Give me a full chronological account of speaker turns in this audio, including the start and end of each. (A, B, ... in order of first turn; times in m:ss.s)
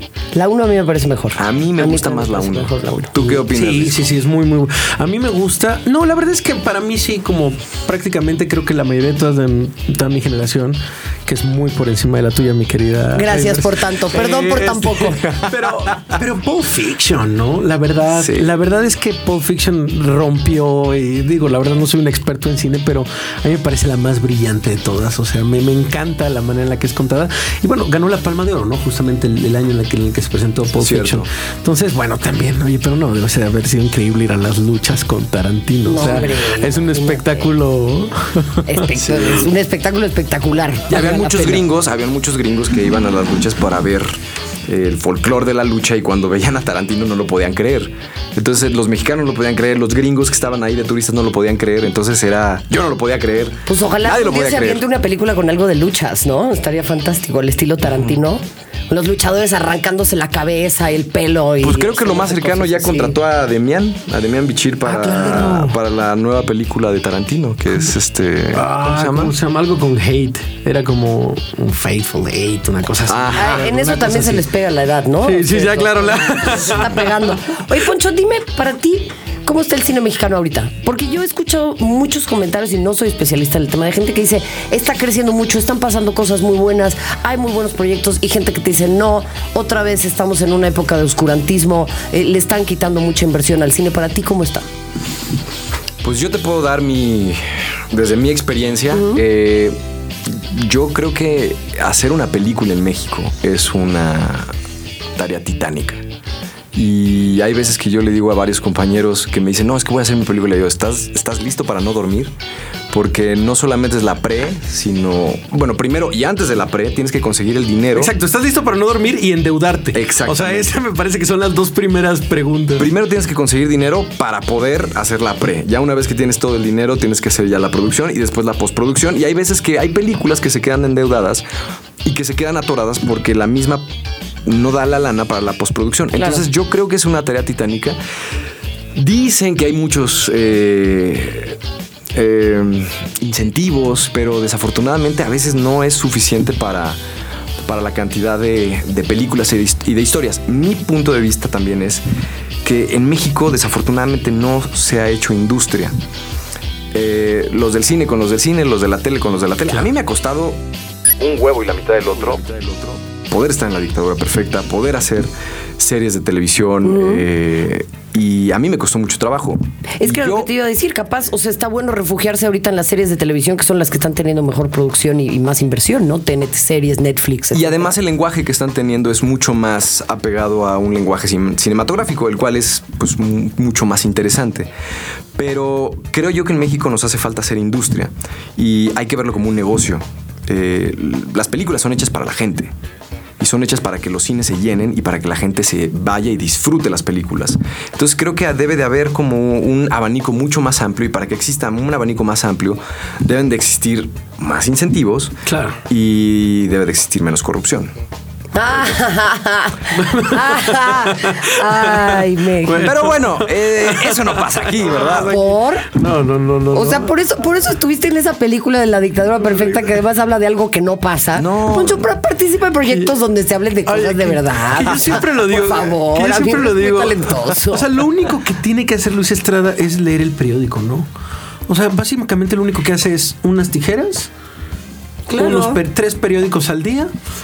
0:00.3-0:03.2 A
0:01.4-0:04.1 B
0:03.2-0:38.9 C
0:13.2-0:15.2 A
0:18.1-0:18.5 B
0:30.8-0:31.3 B
0:35.9-0:37.5 A
0:38.7-0:41.6 A
0:38.9-0:39.5 B
0:40.9-0:54.8 B
0:53.7-1:03.2 A
1:01.6-1:09.4 B
1:04.9-1:05.8 C
1:08.5-1:14.5 C
1:13.1-1:13.6 B
1:13.4-1:34.6 A
1:15.2-1:17.1 C
1:36.0-1:39.8 B
1:38.9-1:39.2 A
1:40.3-1:44.5 B
1:45.2-1:46.0 B
1:46.7-1:52.3 B
1:52.9-1:58.1 B
1:58.0-2:02.9 C
1:59.9-2:00.7 B
2:02.8-2:11.4 B
2:12.0-2:13.8 B
2:14.4-2:18.0 B
2:16.2-2:16.4 A
2:19.0-2:21.6 B
2:22.1-2:27.0 B
2:27.7-2:32.0 B
2:32.6-2:35.9 B
2:36.9-2:40.6 B
2:41.2-2:50.5 B
2:46.8-2:47.3 A
2:50.0-2:57.9 A
2:57.5-3:04.7 B
3:05.4-3:12.7 B
3:13.4-3:27.9 B
3:25.5-3:25.8 C
3:28.6-3:32.9 A
3:30.0-3:37.1 C
3:32.8-3:35.4 B
3:35.3-3:35.9 A
3:36.7-3:47.9 A
3:41.4-3:42.1 B
3:43.9-3:51.1 C
3:51.7-3:54.3 C
3:55.3-3:55.8 A
3:55.3-3:57.1 C